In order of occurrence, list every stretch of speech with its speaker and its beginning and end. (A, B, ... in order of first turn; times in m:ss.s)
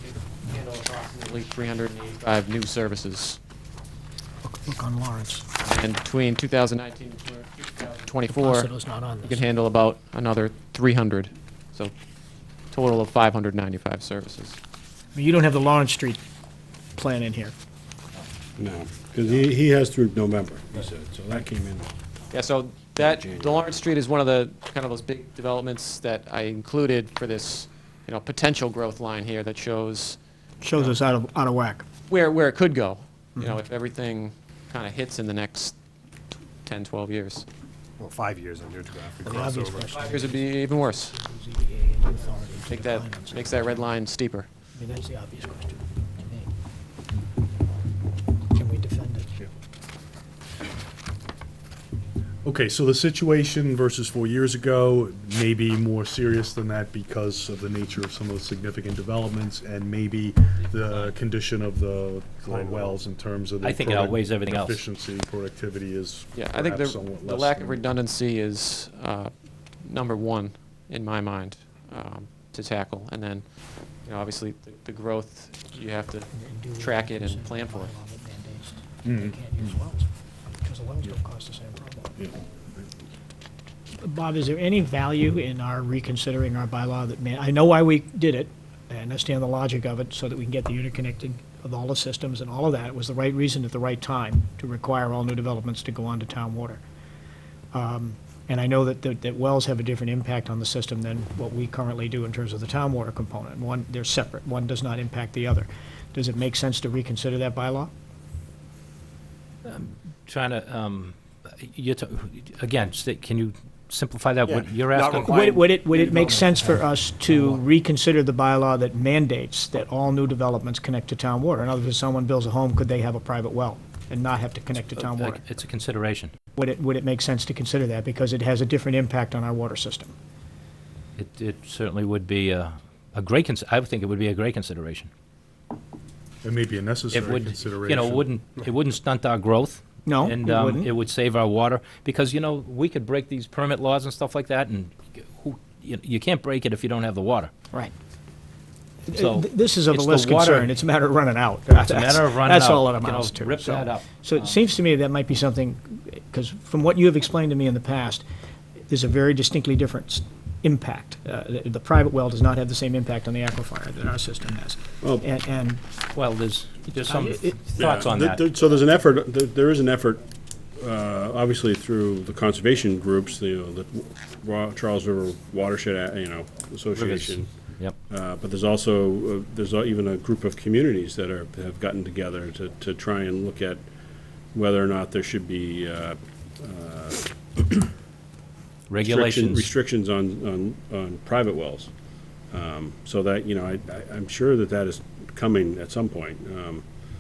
0:00.4-0:03.4 A
0:04.4-0:05.5 B
0:05.6-0:08.7 A
0:08.3-0:09.5 B
0:09.2-0:11.9 A
0:12.7-0:14.6 A
0:15.1-0:16.2 B
0:17.0-0:17.6 B
0:18.6-0:21.9 C
0:22.3-0:30.2 A
0:23.0-0:23.8 C
0:30.6-0:31.8 B
0:32.1-0:35.8 A
0:36.6-0:37.4 A
0:38.0-0:40.0 D
0:39.2-0:43.9 B
0:40.0-0:41.1 A
0:42.7-0:44.5 A
0:44.7-0:46.5 B
0:48.6-0:49.4 B
0:52.4-1:07.8 E
1:02.4-1:03.0 D
1:03.6-1:04.8 F
1:06.3-1:13.5 A
1:14.0-1:17.9 A
1:16.3-1:22.3 B
1:19.0-1:19.4 E
1:24.0-1:36.8 B
1:37.7-1:47.9 B
1:49.6-1:55.5 F
1:54.4-1:56.6 D
1:55.2-2:05.5 B
1:56.1-1:57.6 F
2:05.0-2:06.3 F
2:06.6-2:10.2 B
2:11.2-2:15.1 F
2:16.4-2:18.3 E
2:17.1-2:27.5 F
2:20.0-2:20.9 B
2:29.1-2:38.2 B
2:29.1-2:30.8 F
2:31.7-2:34.6 F
2:38.9-2:45.8 B
2:45.0-2:45.3 C
2:46.1-2:48.4 F
2:47.0-2:47.6 B
2:47.8-2:50.2 C
2:50.8-3:03.9 C
2:56.9-2:58.0 F
3:04.5-3:07.9 C
3:08.9-3:09.7 F
3:09.0-3:16.9 C